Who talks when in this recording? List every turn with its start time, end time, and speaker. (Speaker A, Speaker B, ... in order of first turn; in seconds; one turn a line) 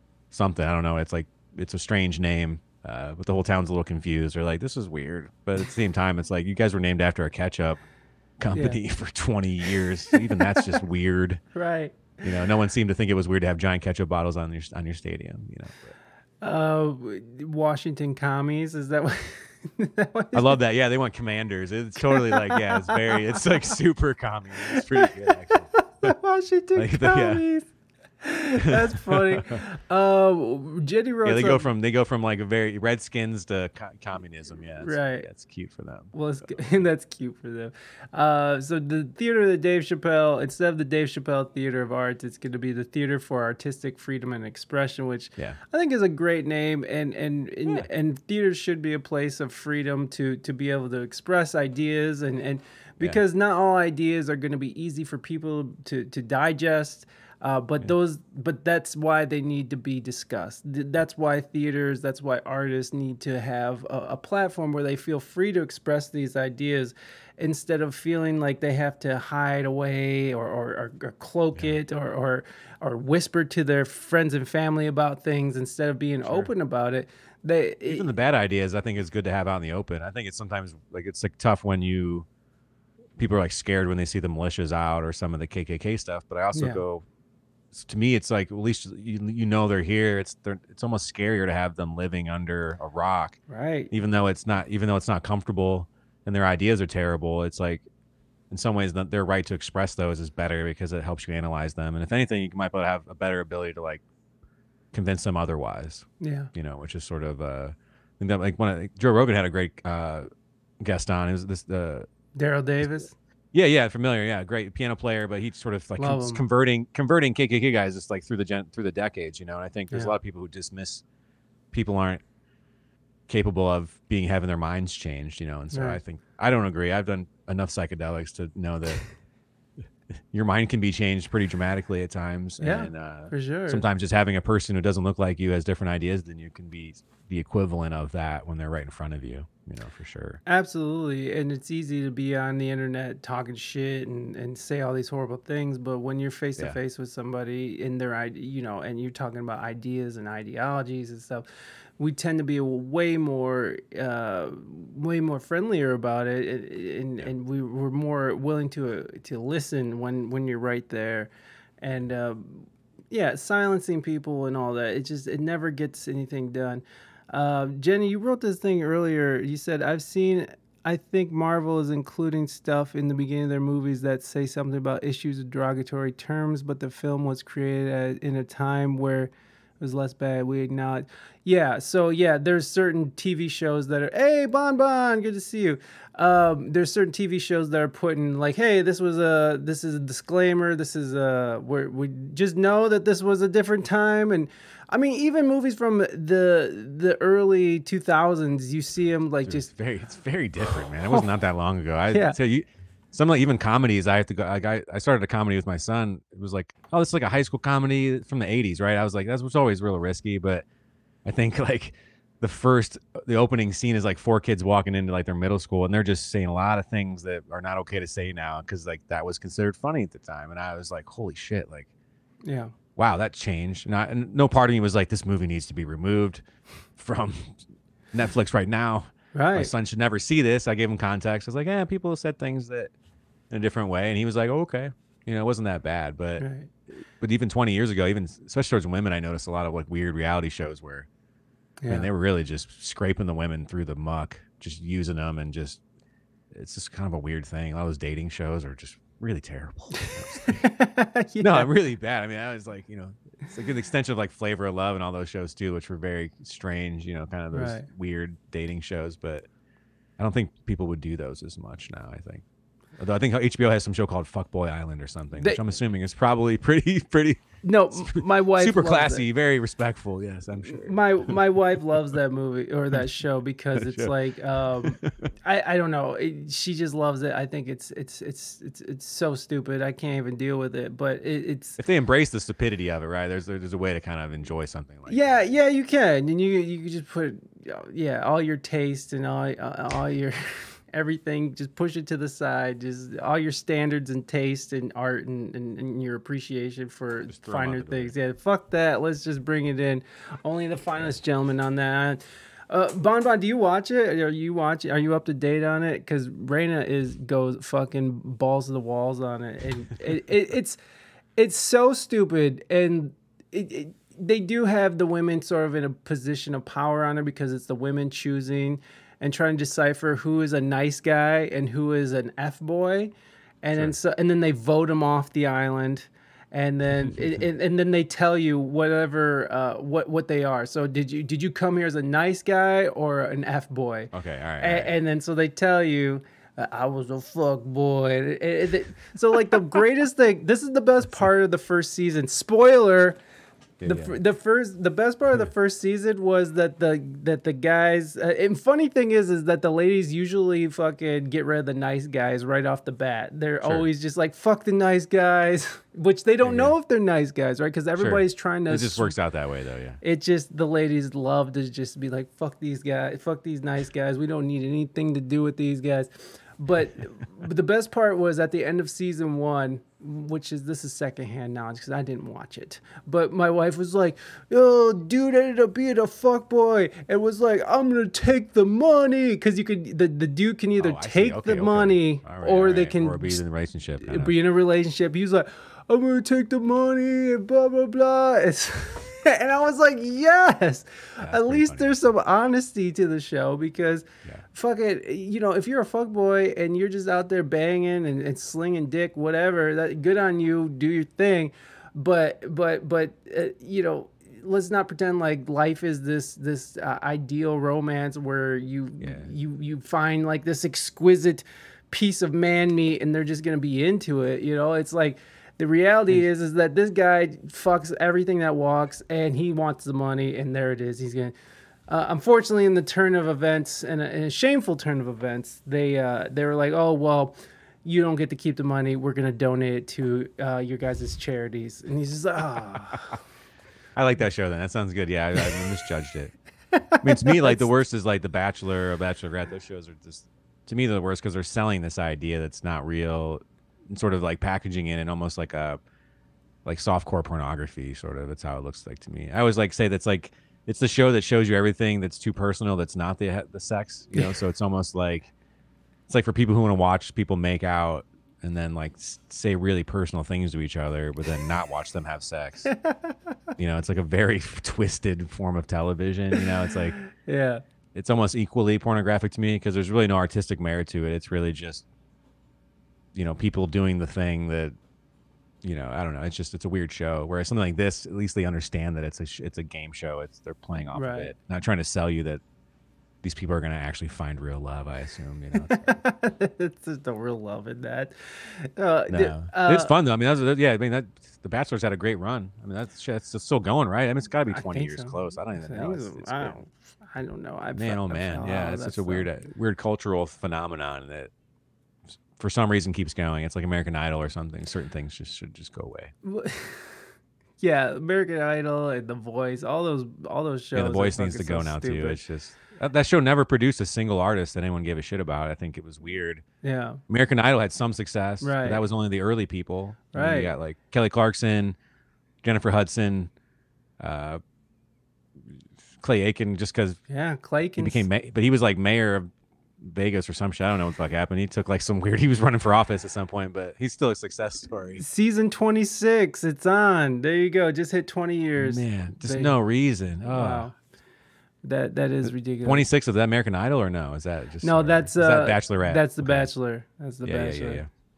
Speaker A: 0.3-7.8
Speaker A: 8.4-11.4
Speaker B: 8.5-8.8
Speaker B: 11.5-12.2
Speaker A: 12.2-15.9
Speaker B: 16.4-20.6
Speaker A: 20.3-26.1
Speaker B: 22.0-23.4
Speaker B: 24.7-27.7
Speaker A: 26.7-27.4
Speaker B: 28.2-31.6
Speaker A: 28.7-29.6
Speaker A: 31.2-36.8
Speaker B: 34.8-35.3
Speaker B: 36.1-78.1
Speaker A: 76.2-76.5
Speaker A: 77.9-82.3
Speaker A: 83.2-87.0
Speaker B: 86.5-86.8
Speaker A: 87.7-93.4
Speaker B: 93.5-93.9
Speaker A: 93.9-97.9
Speaker A: 98.5-104.0
Speaker A: 104.9-110.3
Speaker B: 106.2-106.5
Speaker A: 110.8-112.1
Speaker B: 112.3-113.1
Speaker A: 113.5-121.0
Speaker B: 116.0-116.4
Speaker A: 121.7-122.2
Speaker A: 123.3-129.1
Speaker B: 125.7-126.0
Speaker A: 130.3-140.4
Speaker B: 132.6-133.8
Speaker B: 140.4-151.4
Speaker B: 152.0-161.3
Speaker B: 161.8-199.7
Speaker A: 199.4-210.6
Speaker B: 202.1-202.4
Speaker A: 211.2-221.9
Speaker B: 222.4-222.7
Speaker A: 222.9-226.4
Speaker A: 227.0-227.6
Speaker A: 228.1-232.9
Speaker B: 229.3-229.7
Speaker A: 233.5-241.1
Speaker B: 236.4-236.7
Speaker B: 241.8-242.1
Speaker A: 241.9-245.8
Speaker A: 246.5-250.7
Speaker B: 250.0-251.7
Speaker A: 251.4-259.5
Speaker B: 257.5-257.9
Speaker A: 260.2-262.4
Speaker A: 263.0-271.4
Speaker B: 267.6-269.3
Speaker B: 270.6-281.8
Speaker A: 273.7-274.1
Speaker A: 274.8-275.3
Speaker A: 281.8-285.4
Speaker B: 285.1-310.8
Speaker A: 297.3-298.1
Speaker B: 311.4-343.2
Speaker A: 327.0-327.3
Speaker A: 334.1-334.9
Speaker A: 341.0-341.3
Speaker A: 343.8-344.2
Speaker B: 343.9-359.1
Speaker A: 353.6-353.9
Speaker A: 356.4-356.7
Speaker A: 357.9-360.0
Speaker B: 360.0-383.4
Speaker A: 380.8-384.3
Speaker B: 384.0-421.3
Speaker A: 391.2-392.0
Speaker A: 409.0-409.3
Speaker B: 421.9-433.1
Speaker A: 433.9-436.3
Speaker B: 436.7-437.7
Speaker A: 437.0-445.8
Speaker A: 446.6-455.3
Speaker A: 456.1-462.7
Speaker B: 462.7-463.1
Speaker A: 463.6-467.0
Speaker B: 467.0-467.6
Speaker A: 467.9-471.8
Speaker A: 473.1-474.8
Speaker A: 475.6-482.4
Speaker B: 480.9-481.3
Speaker A: 483.2-486.0
Speaker B: 485.6-489.9
Speaker A: 489.1-496.6
Speaker B: 494.5-499.3
Speaker A: 497.7-501.3
Speaker A: 502.3-506.1
Speaker B: 506.2-507.1
Speaker B: 507.6-512.2
Speaker A: 510.7-516.4
Speaker B: 516.6-517.0
Speaker A: 517.1-521.8
Speaker B: 518.4-518.8
Speaker B: 520.1-520.5
Speaker A: 522.4-523.3
Speaker A: 524.0-524.4
Speaker A: 526.0-527.0
Speaker B: 527.1-528.1
Speaker A: 527.8-535.0
Speaker B: 535.0-539.6
Speaker A: 538.6-540.7
Speaker B: 540.2-540.7
Speaker B: 541.6-542.9
Speaker A: 542.2-546.5
Speaker B: 544.6-547.8
Speaker A: 547.2-547.9